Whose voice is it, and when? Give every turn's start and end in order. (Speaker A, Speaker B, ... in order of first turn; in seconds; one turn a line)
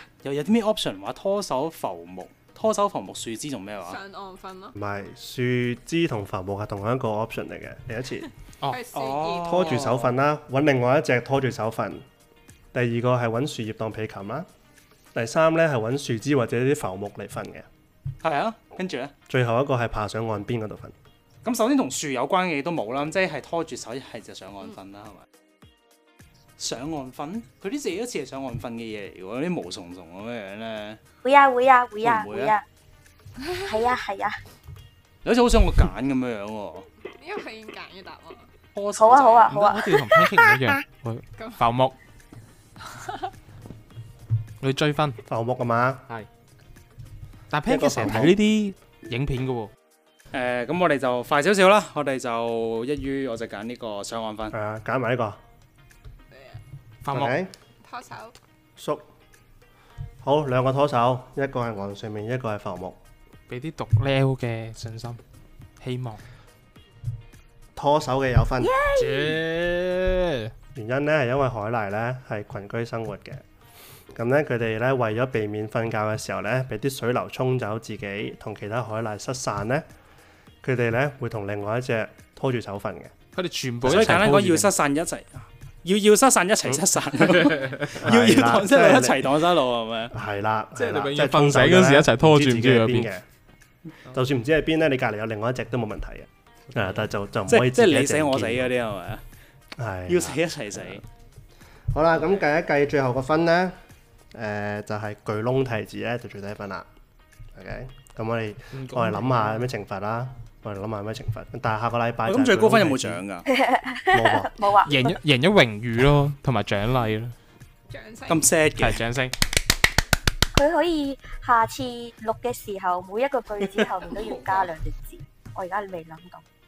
Speaker A: 0.2-4.0
Speaker B: 3.8-4.7
Speaker C: 4.8-8.3
Speaker B: 8.7-9.9
Speaker A: 8.9-10.2
Speaker C: 9.4-12.0
Speaker C: 12.7-14.5
Speaker C: 15.1-17.7
Speaker A: 18.2-19.1
Speaker C: 19.3-20.9
Speaker A: 21.4-25.2
Speaker A: 26.6-31.0
Speaker D: 31.2-32.6
Speaker A: 32.0-32.5
Speaker B: 33.4-33.8
Speaker D: 33.6-34.4
Speaker A: 35.2-36.9
Speaker B: 37.0-38.5
Speaker A: 38.7-39.6
Speaker D: 39.0-40.5
Speaker E: 39.5-41.9
Speaker B: 41.4-41.6
Speaker B: 42.8-43.3
Speaker E: 44.6-45.2
Speaker C: 45.3-46.1
Speaker E: 47.5-49.7
Speaker C: 47.7-48.4
Speaker A: 50.3-54.5
Speaker C: 54.5-55.4
Speaker B: 56.3-56.6
Speaker E: 57.0-57.4
Speaker C: 57.1-57.5
Speaker B: 57.8-58.3
Speaker C: 58.8-59.0
Speaker C: 60.2-63.0
Speaker E: 63.5-65.2
Speaker E: 65.8-66.2
Speaker C: 67.8-68.7
Speaker D: 68.6-69.4
Speaker E: 68.9-70.5
Speaker C: 70.7-73.4
Speaker C: 74.1-79.8
Speaker C: 80.6-83.1
Speaker E: 83.3-84.7
Speaker A: 83.8-90.1
Speaker E: 87.4-87.9
Speaker C: 87.9-89.4
Speaker C: 90.1-93.2
Speaker E: 90.8-93.1
Speaker C: 94.1-98.7
Speaker A: 97.5-99.2
Speaker C: 99.8-100.4
Speaker A: 100.1-101.0
Speaker C: 101.9-103.8
Speaker C: 104.3-106.9
Speaker C: 107.5-113.2
Speaker E: 108.7-109.7
Speaker A: 112.2-113.5
Speaker D: 113.5-115.1
Speaker C: 114.1-114.5
Speaker E: 114.8-117.3
Speaker B: 117.9-118.5
Speaker A: 118.3-119.0
Speaker E: 118.8-119.3
Speaker D: 120.5-126.4